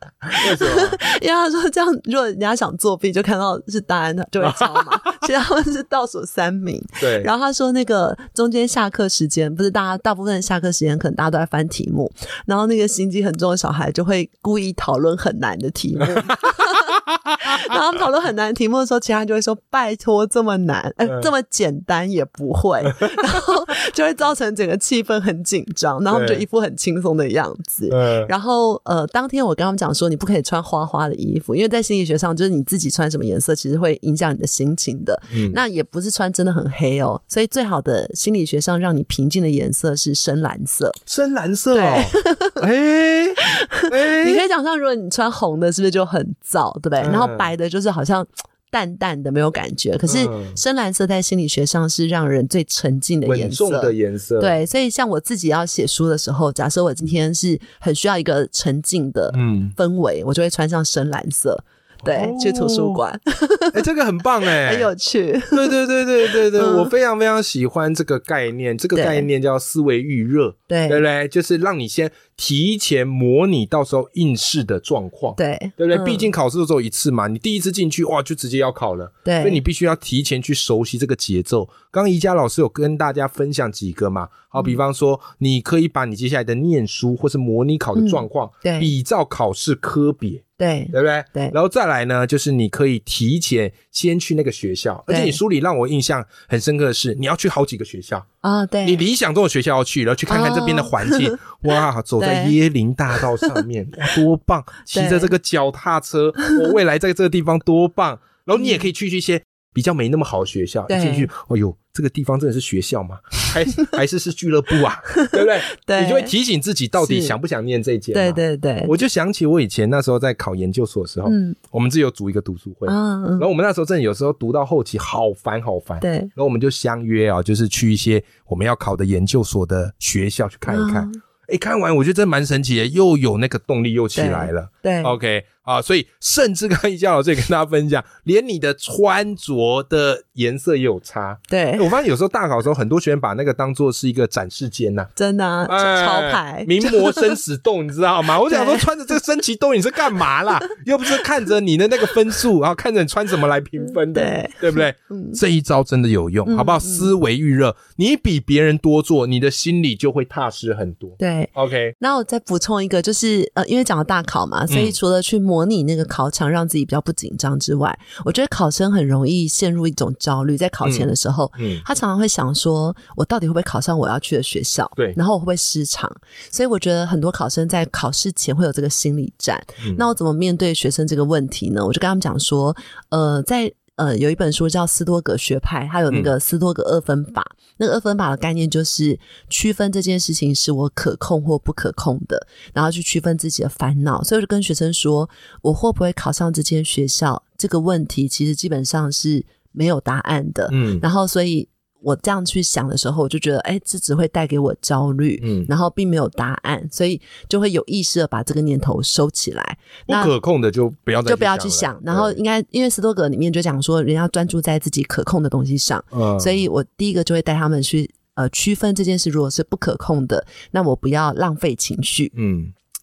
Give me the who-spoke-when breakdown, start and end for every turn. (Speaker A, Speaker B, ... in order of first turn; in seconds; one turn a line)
Speaker A: 0.3-1.0
Speaker B: 0.4-16.8
Speaker A: 4.5-5.1
Speaker A: 7.0-7.3
Speaker B: 17.4-41.0
Speaker A: 26.1-26.4
Speaker A: 27.9-28.3
Speaker A: 35.3-35.6
Speaker A: 41.1-44.4
Speaker B: 41.7-42.6
Speaker B: 43.4-63.8
Speaker A: 47.0-47.5
Speaker A: 50.0-50.6
Speaker A: 53.2-54.5
Speaker A: 59.3-59.7
Speaker A: 62.0-63.0
Speaker A: 63.7-64.9
Speaker B: 64.5-65.7
Speaker A: 65.5-98.2
Speaker B: 66.2-66.9
Speaker B: 68.9-69.3
Speaker B: 70.7-71.0
Speaker B: 75.4-76.3
Speaker B: 79.2-79.6
Speaker B: 87.9-88.9
Speaker B: 90.6-91.5
Speaker B: 95.1-95.4
Speaker B: 98.4-99.0
Speaker A: 98.8-145.1
Speaker B: 100.3-101.5
Speaker B: 102.2-102.6
Speaker B: 104.9-105.3
Speaker B: 108.5-108.8
Speaker B: 110.9-111.3
Speaker B: 115.1-116.3
Speaker B: 117.0-117.3
Speaker B: 118.1-118.9
Speaker B: 121.2-121.6
Speaker B: 122.8-123.5
Speaker B: 126.0-126.3
Speaker B: 130.7-131.2
Speaker B: 134.1-135.1
Speaker B: 141.5-141.9
Speaker B: 145.2-147.3
Speaker A: 145.7-161.9
Speaker B: 148.4-148.9
Speaker B: 154.0-155.4
Speaker B: 156.4-157.1
Speaker B: 161.2-210.3
Speaker A: 164.7-164.9
Speaker A: 170.8-171.8
Speaker A: 200.7-201.0
Speaker A: 205.4-205.7
Speaker A: 210.1-212.4
Speaker B: 211.2-222.3
Speaker A: 216.1-216.6
Speaker A: 222.3-222.7